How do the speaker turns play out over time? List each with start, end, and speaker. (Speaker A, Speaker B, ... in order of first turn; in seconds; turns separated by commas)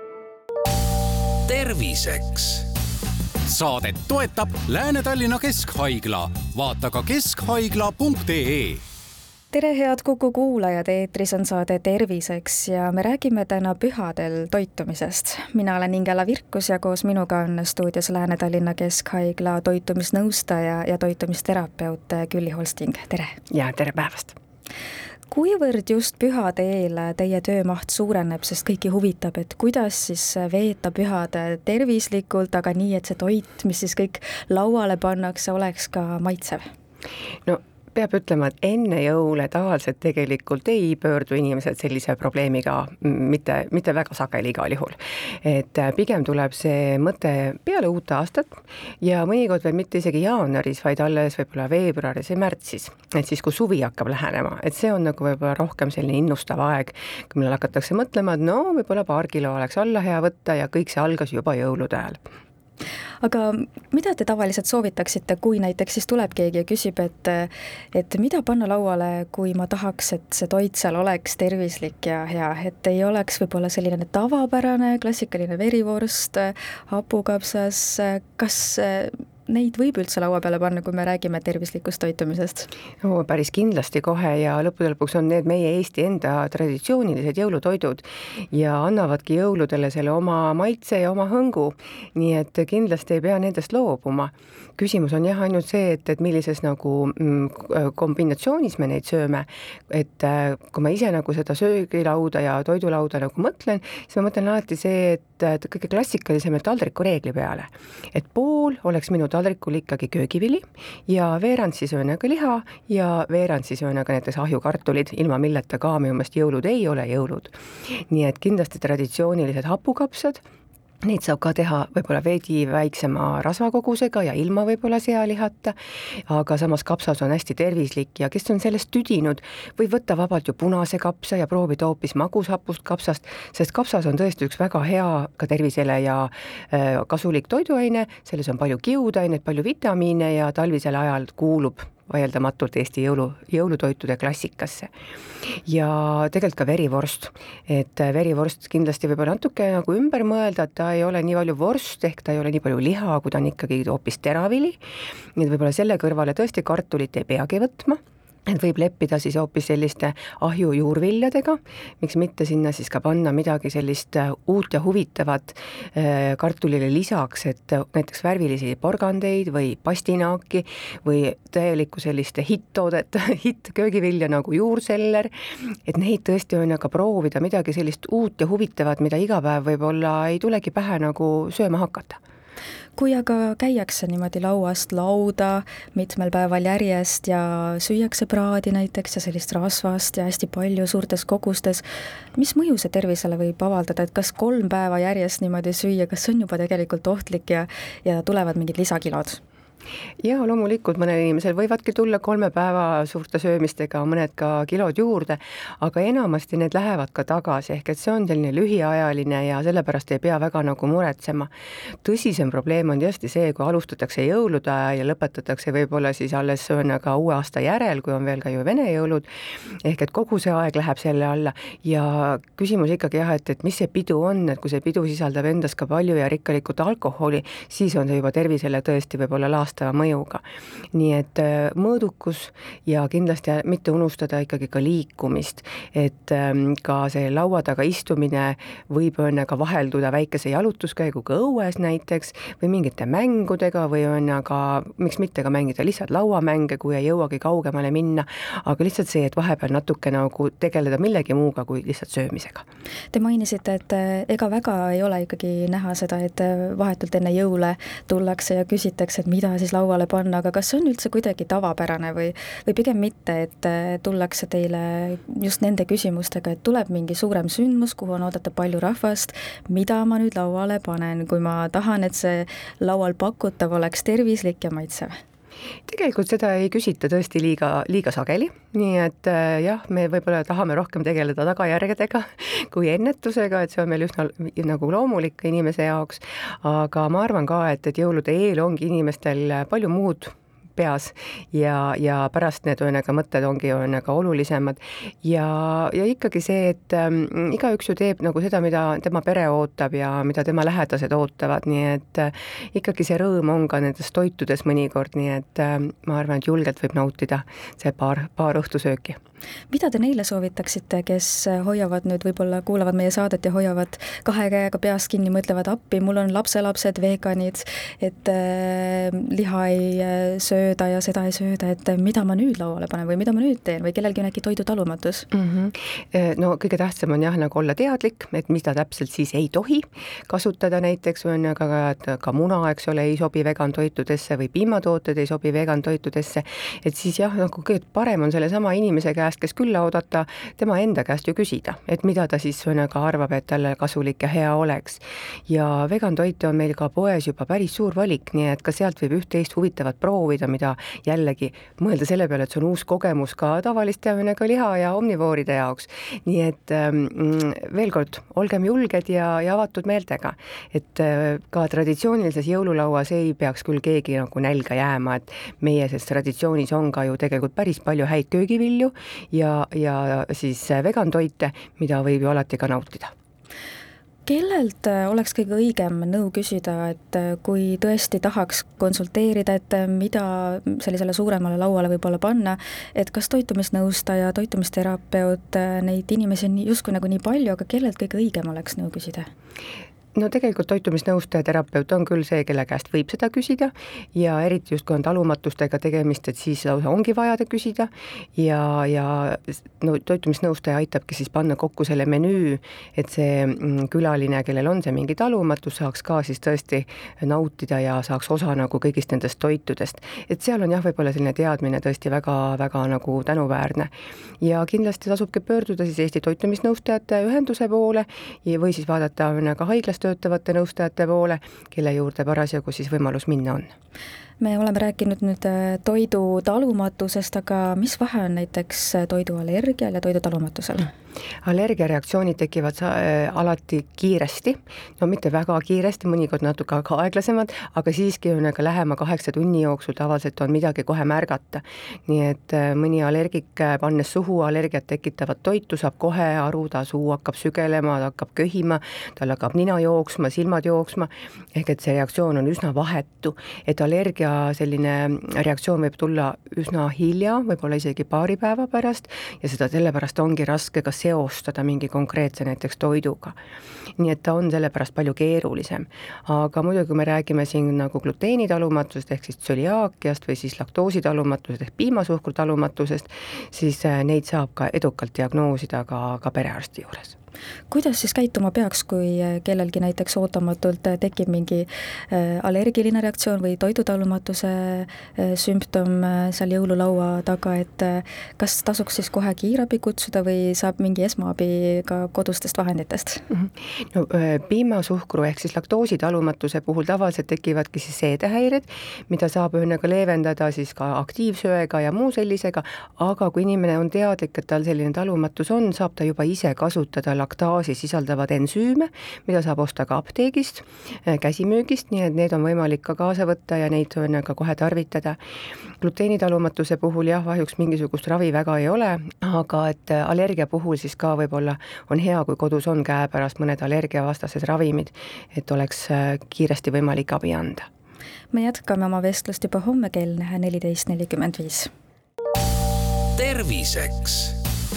Speaker A: 1.5-2.7, Speaker B: 3.5-8.8, Speaker C: 9.5-23.4, Speaker D: 23.5-24.4, Speaker C: 25.3-36.6, Speaker D: 37.5-62.2, Speaker C: 63.2-82.7, Speaker D: 83.0-120.4, Speaker D: 121.0-144.9, Speaker D: 145.7-154.8, Speaker D: 155.4-175.3, Speaker D: 175.9-182.2, Speaker C: 183.0-191.8, Speaker C: 192.4-199.4, Speaker D: 200.2-211.5, Speaker D: 212.0-219.3, Speaker D: 219.8-252.7, Speaker C: 253.1-275.1, Speaker D: 275.9-309.2, Speaker C: 309.7-325.3, Speaker D: 325.3-373.1, Speaker C: 374.2-389.3, Speaker D: 390.1-423.7, Speaker C: 424.4-430.9, Speaker D: 431.4-463.4, Speaker D: 464.0-477.1, Speaker C: 477.7-493.2, Speaker D: 493.3-515.2, Speaker D: 515.8-527.7, Speaker C: 528.3-531.7, Speaker A: 533.1-534.4